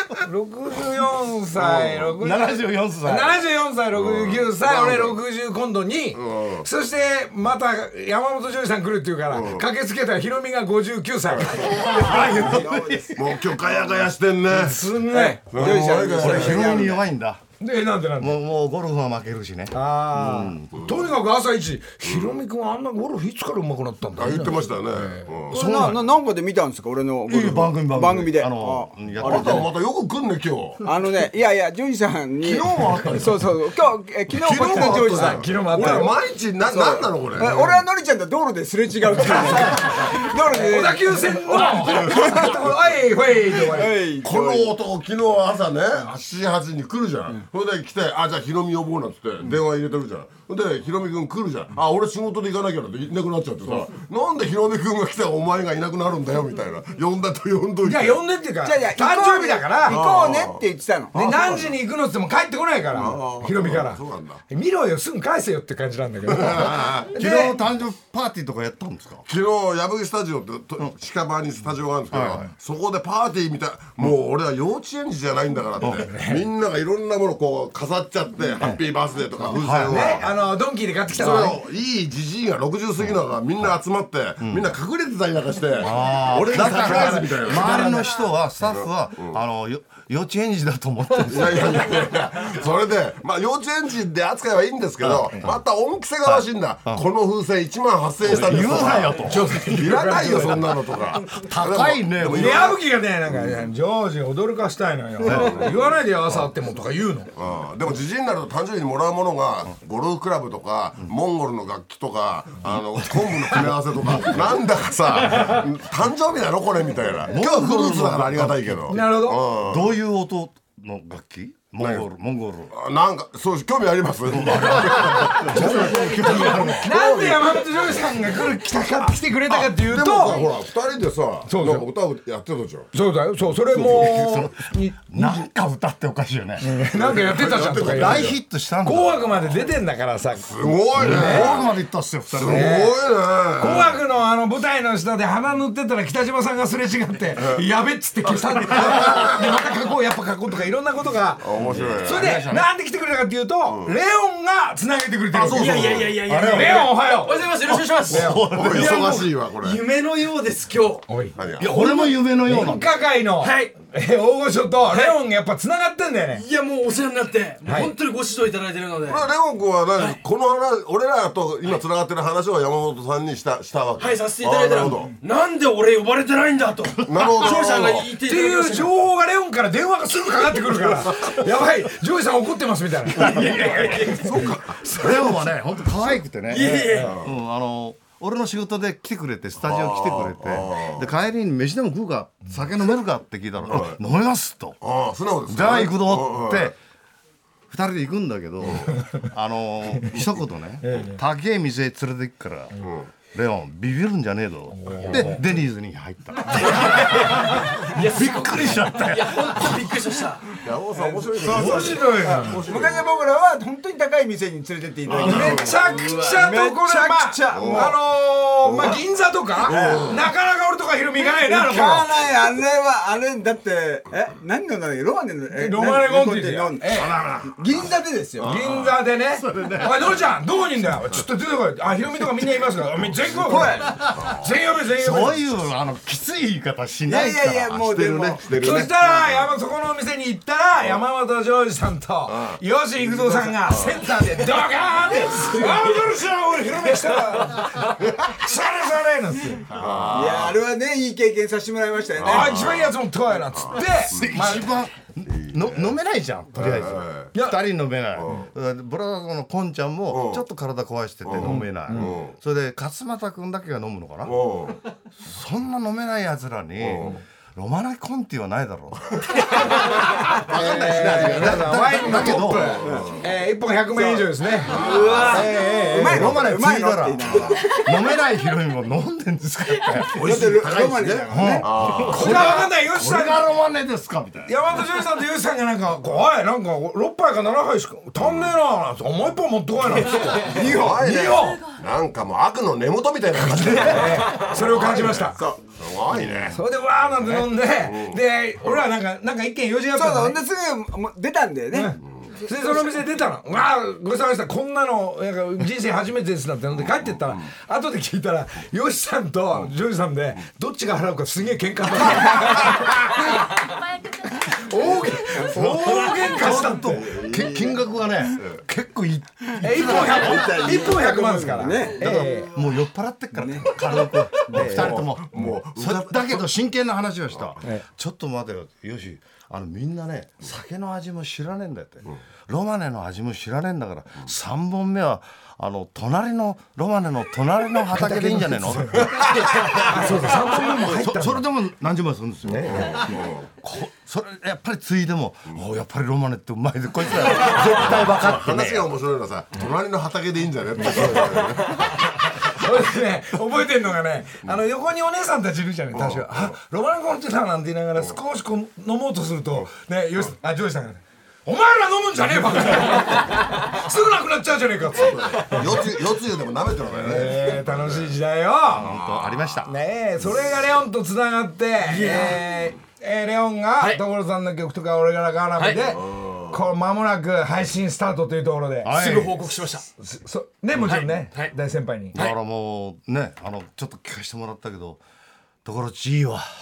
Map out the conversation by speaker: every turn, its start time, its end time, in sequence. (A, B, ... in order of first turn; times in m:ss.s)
0:00.2-0:11.7 A
0:01.6-0:03.4 B
0:03.9-0:05.2 C
0:06.1-0:06.7 C
0:09.3-0:09.6 C
0:11.4-0:12.6 C
0:11.6-0:13.2 B
0:11.7-0:13.2 D
0:13.2-0:14.9 C
0:14.5-0:15.6 A
0:15.1-0:17.0 D
0:15.5-0:16.9 C
0:16.2-0:17.4 B
0:17.6-0:18.4 A
0:18.2-0:20.7 B
0:19.7-0:25.3 A
0:22.0-0:22.4 C
0:24.2-0:25.6 C
0:25.5-0:26.1 B
0:25.5-0:29.7 D
0:27.3-0:29.7 B
0:29.2-0:30.8 C
0:30.8-0:35.9 D
0:32.4-0:33.3 C
0:33.0-0:33.3 B
0:34.4-0:37.6 C
0:34.7-0:36.1 A
0:36.7-0:42.6 D
0:37.4-0:37.8 A
0:40.5-0:44.0 A
0:43.5-0:44.8 D
0:44.2-0:58.2 C
0:57.8-1:00.0 A
0:58.6-1:01.5 D
0:59.9-1:00.6 C
1:01.1-1:07.6 A
1:01.2-1:01.8 C
1:02.9-1:04.4 C
1:06.3-1:07.1 C
1:06.9-1:09.3 B
1:09.3-1:20.3 C
1:12.1-1:12.5 B
1:16.1-1:16.4 A
1:19.5-1:20.2 B
1:19.9-1:21.6 A
1:21.2-1:27.9 C
1:24.4-1:24.7 B
1:25.8-1:32.1 B
1:26.5-1:28.2 A
1:28.7-1:29.4 C
1:31.3-1:42.8 C
1:35.0-1:35.5 B
1:36.2-1:37.0 B
1:38.2-1:39.7 B
1:39.3-1:40.8 A
1:41.2-1:42.7 B
1:42.2-1:47.3 A
1:45.2-1:45.5 B
1:45.3-1:45.9 C
1:47.4-2:00.0 C
1:57.3-2:02.7 B
1:58.9-1:59.4 A
2:01.8-2:02.1 C
2:02.7-2:07.8 C
2:04.3-2:07.0 B
2:05.5-2:10.4 A
2:09.4-2:12.9 C
2:11.5-2:11.9 A
2:12.9-2:15.4 A
2:13.7-2:16.7 B
2:16.6-2:21.5 A
2:16.9-2:18.4 C
2:17.8-2:19.2 B
2:20.4-2:21.8 C
2:21.0-2:22.8 B
2:22.3-2:23.9 C
2:22.4-2:23.0 A
2:23.6-2:31.5 A
2:27.4-2:27.6 C
2:28.2-2:29.4 C
2:31.4-2:32.3 C
2:31.7-2:32.7 B
2:32.0-2:37.4 A
2:33.6-2:33.9 C
2:35.3-2:36.3 C
2:35.5-2:41.1 E
2:36.2-2:36.9 B
2:38.0-2:39.3 B
2:38.1-2:38.5 A
2:38.5-2:39.8 C
2:41.1-2:41.4 A
2:41.4-2:41.8 C
2:41.6-2:42.9 B
2:41.8-2:42.7 E
2:42.4-2:46.4 A
2:43.4-2:43.8 E
2:44.9-2:45.2 E
2:46.4-2:49.3 E
2:47.6-2:47.9 A
2:49.1-2:55.1 C
2:50.0-2:50.2 E
2:54.0-2:58.9 E
2:57.1-2:58.1 C
2:58.2-3:05.2 A
3:03.1-3:04.3 B
3:03.4-3:04.6 E
3:04.9-3:14.8 B
3:06.5-3:07.1 E
3:06.6-3:07.1 A
3:09.6-3:11.1 C
3:13.7-3:14.0 C
3:14.8-3:16.7 C
3:15.5-3:16.8 B
3:17.7-3:22.7 B
3:18.9-3:19.2 A
3:20.8-3:21.2 A
3:22.8-3:23.1 C
3:23.3-3:29.8 B
3:24.8-3:25.4 A
3:25.1-3:25.3 C
3:26.5-3:26.8 A
3:26.8-3:30.6 E
3:30.6-3:33.1 C
3:31.0-3:31.4 D
3:31.4-3:32.6 A
3:31.5-3:31.9 B
3:32.2-3:38.0 D
3:35.1-3:35.8 C
3:35.2-3:42.1 A
3:35.7-3:36.4 E
3:37.5-3:38.0 C
3:38.6-3:39.0 C
3:39.7-3:40.2 D
3:39.7-3:40.3 C
3:41.2-3:48.5 D
3:45.6-3:47.1 A
3:47.0-3:47.5 B
3:48.4-3:49.0 C
3:48.4-3:55.5 A
3:49.3-3:50.2 B
3:53.4-3:54.0 D
3:53.5-3:54.6 C
3:54.9-3:57.8 B
3:57.1-3:58.5 D
3:57.8-3:59.5 C
3:58.5-4:09.7 A
4:02.3-4:02.6 C
4:03.2-4:04.0 C
4:09.7-4:10.6 C
4:09.8-4:10.4 B
4:10.1-4:12.7 D
4:12.2-4:13.0 C
4:12.2-4:14.7 A
4:13.5-4:14.6 C
4:14.1-4:24.4 B
4:15.3-4:15.9 C
4:16.6-4:17.4 C
4:17.3-4:17.6 A
4:18.2-4:18.5 C
4:20.1-4:20.4 C
4:21.2-4:22.4 C
4:21.4-4:22.1 A
4:24.2-4:24.8 C
4:25.2-4:29.2 B
4:26.8-4:27.2 C
4:30.3-4:36.3 A
4:30.4-4:33.3 C
4:30.5-4:32.9 B
4:31.4-4:33.2 D
4:33.9-4:37.8 D
4:34.7-4:35.5 C
4:35.0-4:35.3 E
4:36.0-4:44.6 B
4:40.1-4:42.6 C
4:40.2-4:41.7 D
4:42.1-4:43.5 A
4:44.5-4:51.6 A
4:48.2-4:48.5 C
4:50.5-4:56.6 C
4:53.4-4:55.4 A
4:56.5-5:00.4 A
4:57.2-4:58.8 C
4:59.9-5:02.0 D
5:01.7-5:13.6 A
5:07.1-5:07.5 C
5:14.4-5:17.0 A
5:15.5-5:20.7 B
5:16.9-5:17.8 C
5:19.6-5:22.5 A
5:19.8-5:22.4 D
5:22.0-5:48.9 B
5:23.3-5:23.7 D
5:24.5-5:25.0 A
5:24.6-5:26.5 C
5:37.9-5:41.5 A
5:42.6-5:43.5 C
5:47.6-5:52.0 C
5:52.5-6:05.9 A
5:55.9-5:56.6 C
6:05.0-6:08.1 C
6:07.0-6:08.9 A
6:08.7-6:09.7 B
6:09.0-6:09.5 C
6:09.7-6:19.1 A
6:11.8-6:12.4 E
6:15.6-6:15.8 E
6:16.0-6:16.6 C
6:18.8-6:19.5 B
6:18.9-6:19.9 E
6:20.0-6:22.2 A
6:20.8-6:21.5 E
6:22.1-6:25.0 B
6:25.6-6:26.5 B